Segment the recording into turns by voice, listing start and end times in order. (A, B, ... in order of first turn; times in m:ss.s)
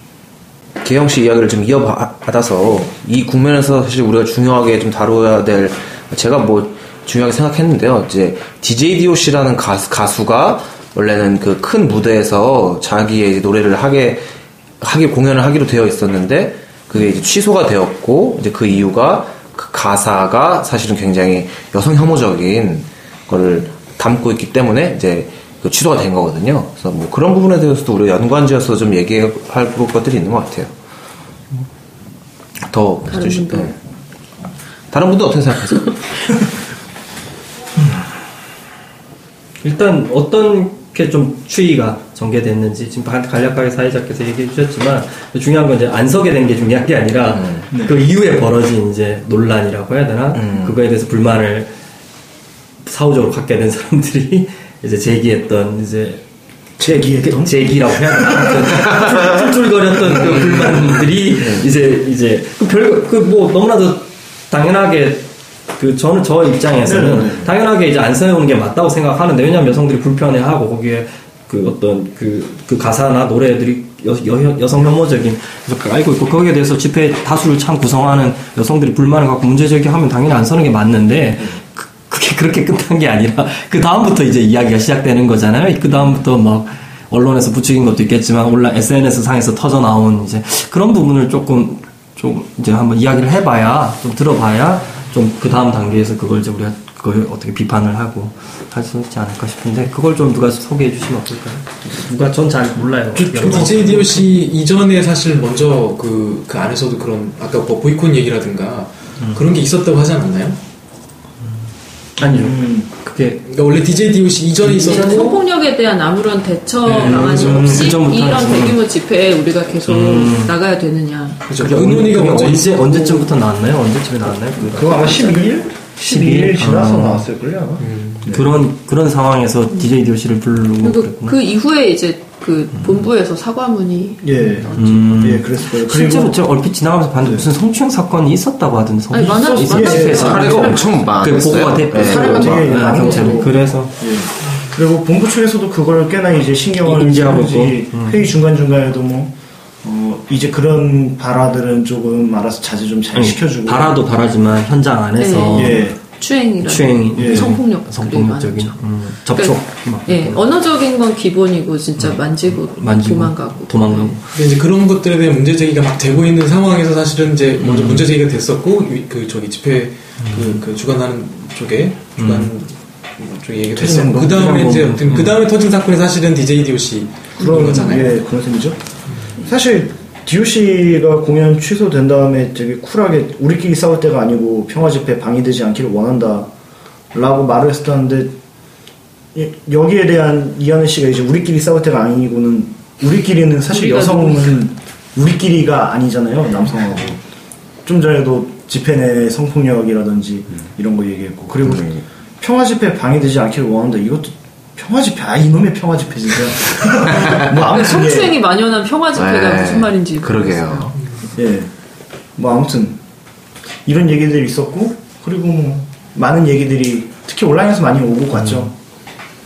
0:00.8-0:14.3 A
0:14.8-0:30.7 A
0:32.6-0:33.8 A
0:33.1-0:33.7 B
0:34.9-0:36.4 A
0:39.6-0:51.7 C
0:47.3-0:47.6 A
0:47.7-0:48.0 D
0:50.3-0:50.8 A
0:52.8-0:56.2 C
0:56.8-0:59.4 D
0:56.8-1:44.3 C
1:00.1-1:00.5 D
1:00.4-1:01.0 E
1:06.8-1:07.5 D
1:43.1-1:50.6 E
1:52.2-1:53.4 C
1:52.2-1:52.9 D
1:53.4-1:55.4 E
1:54.7-2:01.4 B
1:54.8-1:55.2 C
1:56.8-1:58.0 E
1:56.9-1:58.8 C
1:59.9-2:00.5 C
2:01.5-2:03.3 E
2:01.5-2:05.3 C
2:04.6-2:08.5 D
2:05.1-2:05.5 B
2:06.0-2:07.2 C
2:07.8-2:08.3 E
2:08.2-2:11.4 C
2:10.8-2:14.7 B
2:14.2-2:16.4 D
2:14.8-2:23.9 C
2:19.1-2:21.1 B
2:19.6-2:20.7 D
2:19.9-2:22.8 A
2:21.9-2:33.9 D
2:22.9-2:23.4 B
2:26.8-2:28.2 C
2:33.1-2:35.9 C
2:35.2-2:44.2 B
2:35.5-2:36.0 D
2:36.6-2:40.4 C
2:37.2-2:37.5 D
2:42.0-2:44.2 C
2:44.3-2:58.2 E
2:47.6-2:48.1 C
2:50.2-2:50.6 C
2:52.2-2:52.5 C
2:53.8-2:55.0 D
2:54.6-2:55.4 C
2:57.4-3:06.5 D
2:57.4-2:58.0 B
3:07.1-3:08.4 D
3:09.3-3:17.2 D
3:13.7-3:14.6 B
3:17.8-3:28.4 D
3:21.6-3:22.0 A
3:27.1-3:30.9 B
3:27.2-3:27.5 A
3:29.1-3:31.0 A
3:31.4-3:31.7 D
3:32.4-3:33.0 D
3:33.8-3:38.7 D